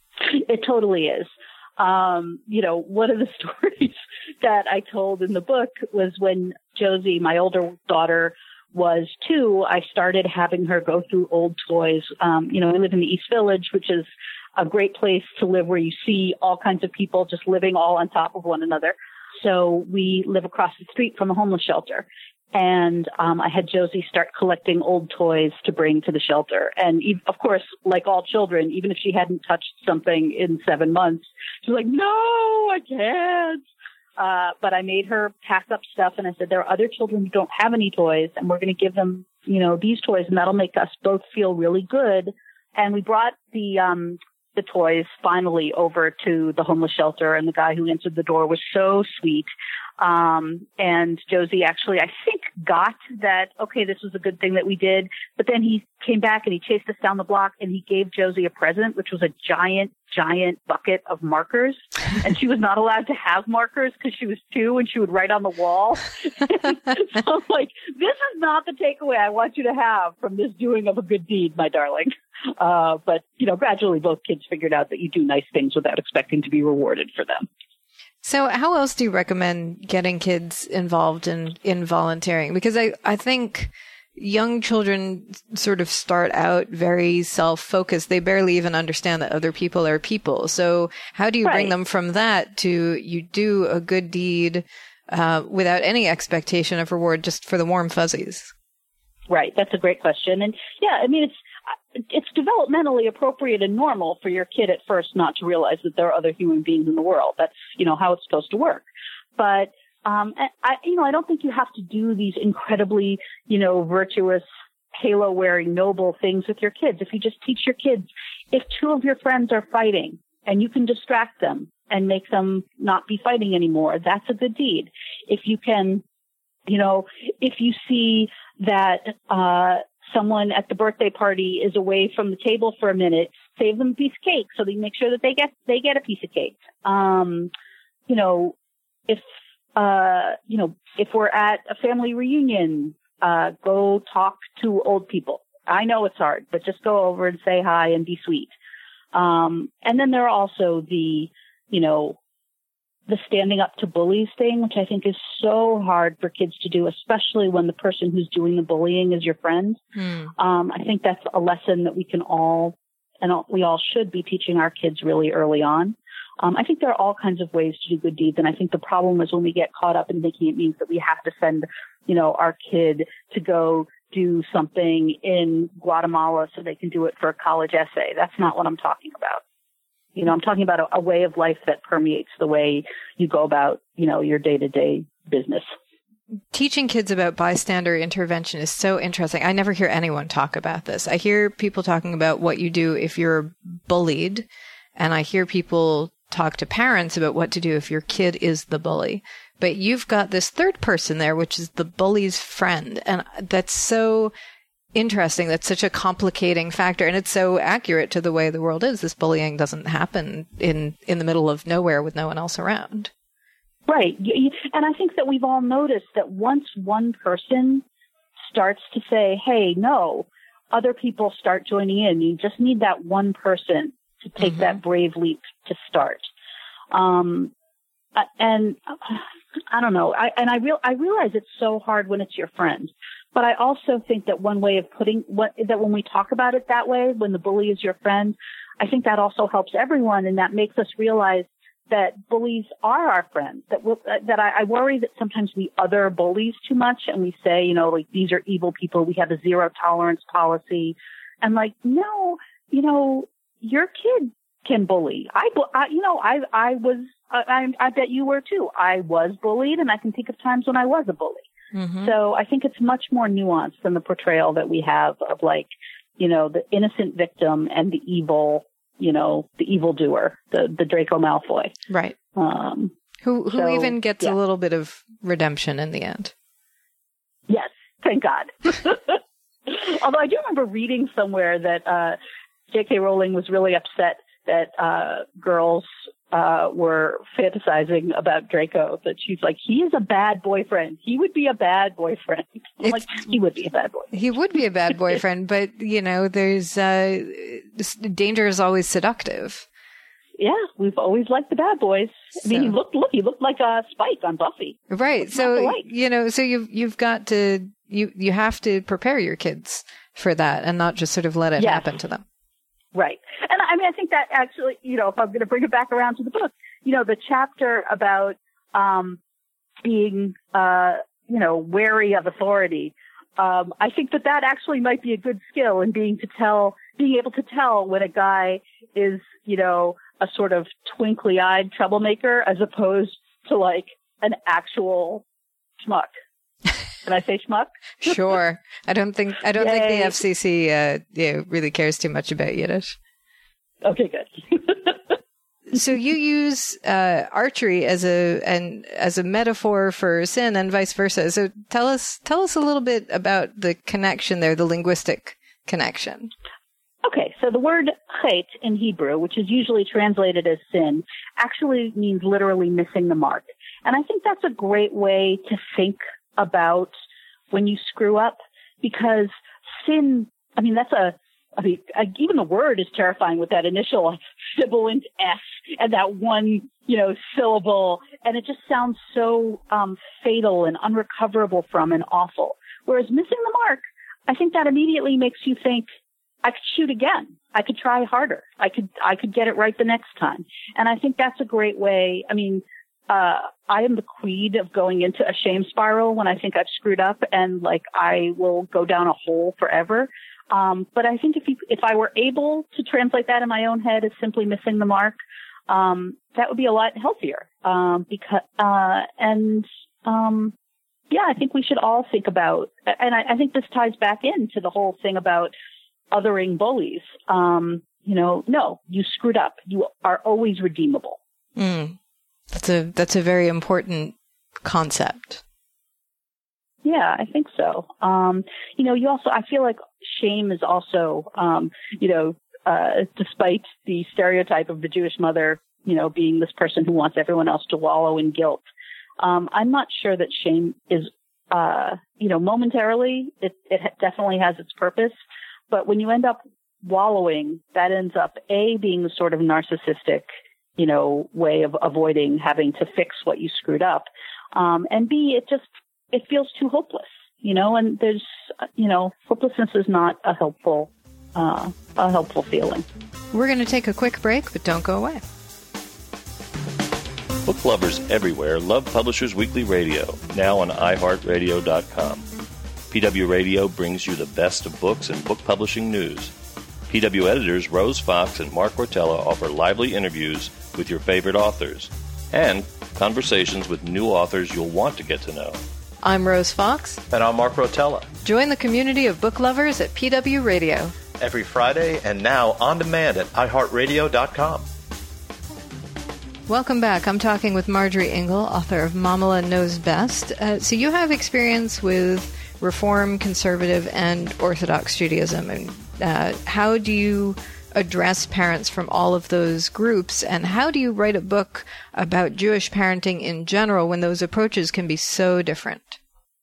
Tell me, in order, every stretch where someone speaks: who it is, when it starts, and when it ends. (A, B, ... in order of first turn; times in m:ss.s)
0:00.3-0:33.6 A
0:34.2-0:49.5 A
0:50.0-1:17.5 A
1:18.2-1:38.5 B
1:31.4-1:31.7 A
1:39.3-1:41.4 A
1:42.0-1:48.8 A
1:49.4-1:54.4 A
1:54.9-2:06.0 A
2:06.7-2:17.5 A
2:18.1-2:18.5 A
2:19.7-2:28.5 A
2:29.1-2:32.2 A
2:33.1-2:39.8 A
2:40.0-2:40.3 B
2:40.4-2:59.4 A
3:00.2-3:05.6 A
3:06.5-3:14.4 B
3:15.0-3:24.3 B
3:24.9-3:33.1 B
3:33.9-3:37.8 A
3:38.5-3:46.3 A
3:44.4-3:44.8 B
3:46.9-3:47.5 A
3:48.2-4:21.4 A
4:21.7-4:22.1 B
4:22.0-4:31.7 A
4:31.9-4:32.2 B
4:32.3-4:32.9 A
4:33.2-4:36.3 B
4:33.5-4:34.3 A
4:37.5-4:42.2 A
4:42.7-4:54.1 A
4:52.8-4:53.1 B
4:54.1-4:59.6 B
5:00.4-5:05.8 A
5:02.4-5:02.7 B
5:04.9-5:12.2 B
5:11.6-5:11.8 A
5:12.9-5:19.2 A
5:19.8-5:35.2 A
5:35.8-5:36.1 A
5:37.0-5:37.7 A
5:38.0-5:42.9 B
5:39.6-5:40.2 A
5:43.8-5:45.0 A
5:45.7-5:56.3 B
5:57.0-6:06.9 A
6:07.5-6:25.8 A
6:26.4-6:45.2 A
6:45.7-6:50.5 A
6:51.1-6:55.5 A
6:56.1-7:01.2 A
7:01.6-7:02.0 B
7:02.5-7:05.4 B
7:06.8-7:18.6 A
7:19.2-7:25.2 A
7:25.7-7:30.2 A
7:30.8-7:42.8 A
7:43.3-7:45.2 B
7:47.4-7:52.2 C
7:52.9-7:56.3 C
7:56.9-8:05.6 C
8:06.0-8:07.0 B
8:07.1-8:08.1 D
8:08.2-8:10.9 B
8:11.2-8:14.7 D
8:16.5-8:36.0 B